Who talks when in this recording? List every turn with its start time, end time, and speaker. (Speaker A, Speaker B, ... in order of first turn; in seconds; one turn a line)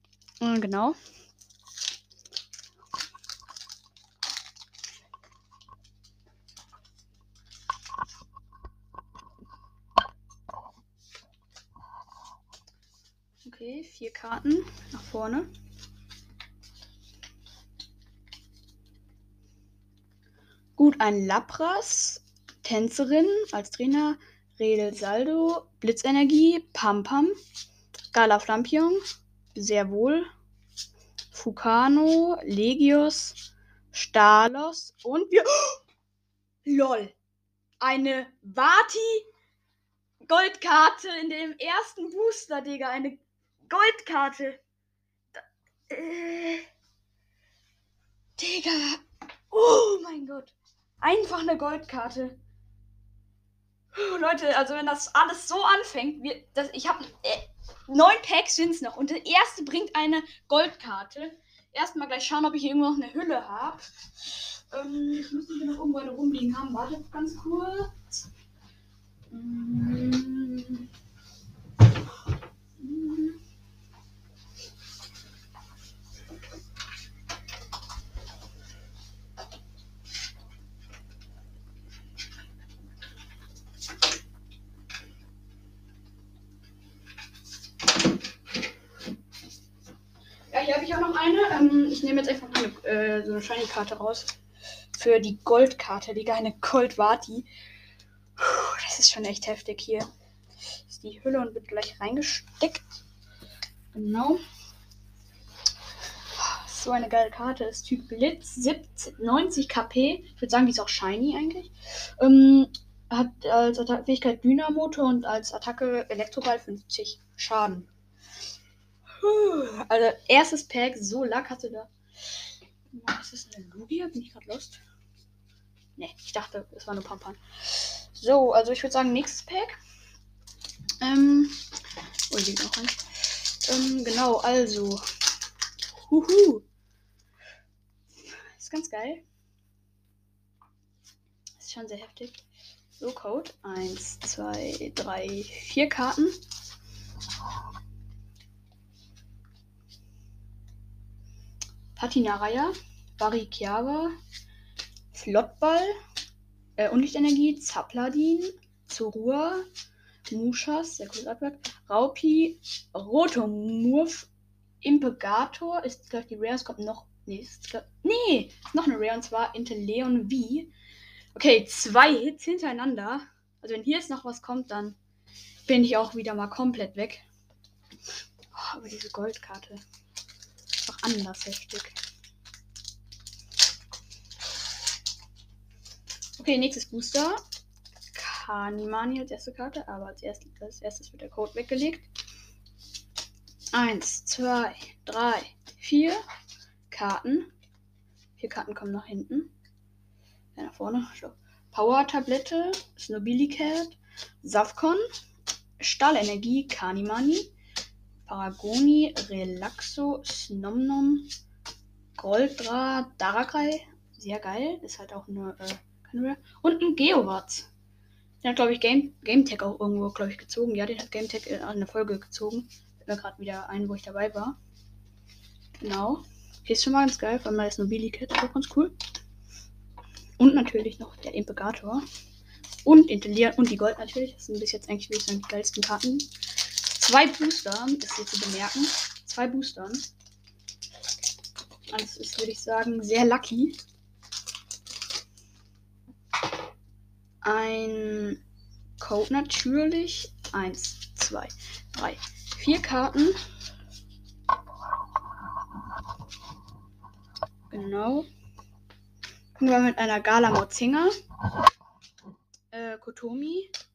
Speaker A: 0.4-1.0
Speaker A: 13.4-15.5
Speaker A: 20.8-27.4
Speaker A: 28.1-29.0
Speaker A: 29.5-30.3
Speaker A: 31.3-33.4
Speaker A: 33.9-35.8
Speaker A: 36.6-37.1
Speaker A: 37.8-39.3
Speaker A: 40.2-44.6
Speaker A: 45.4-46.7
Speaker A: 48.4-52.4
Speaker A: 53.9-68.3
Speaker A: 69.3-70.9
Speaker A: 72.8-73.4
Speaker A: 90.5-94.4
Speaker A: 94.9-97.5
Speaker A: 98.4-100.1
Speaker A: 100.8-102.8
Speaker A: 103.9-104.4
Speaker A: 106.3-117.9
Speaker A: 119.2-122.4
Speaker A: 122.9-124.8
Speaker A: 126.0-129.8
Speaker A: 131.0-131.6
Speaker A: 132.3-135.1
Speaker A: 136.0-136.7
Speaker A: 138.5-139.2
Speaker A: 141.6-142.4
Speaker A: 143.0-146.4
Speaker A: 152.0-154.2
Speaker A: 155.1-156.0
Speaker A: 156.8-159.7
Speaker A: 160.3-164.3
Speaker A: 164.8-170.7
Speaker A: 171.3-175.0
Speaker A: 175.7-177.2
Speaker A: 178.5-179.8
Speaker A: 180.8-182.0
Speaker A: 186.4-187.4
Speaker A: 188.1-192.1
Speaker A: 193.7-196.2
Speaker A: 196.9-197.5
Speaker A: 198.4-199.5
Speaker A: 200.6-205.0
Speaker A: 205.8-207.5
Speaker A: 208.2-211.3
Speaker A: 212.2-217.7
Speaker A: 218.4-224.6
Speaker A: 225.8-228.9
Speaker A: 230.4-232.1
Speaker A: 232.8-240.1
Speaker A: 241.9-243.8
Speaker A: 247.4-248.4
Speaker A: 249.0-253.4
Speaker A: 257.7-258.3
Speaker A: 259.6-261.1
Speaker A: 262.7-263.7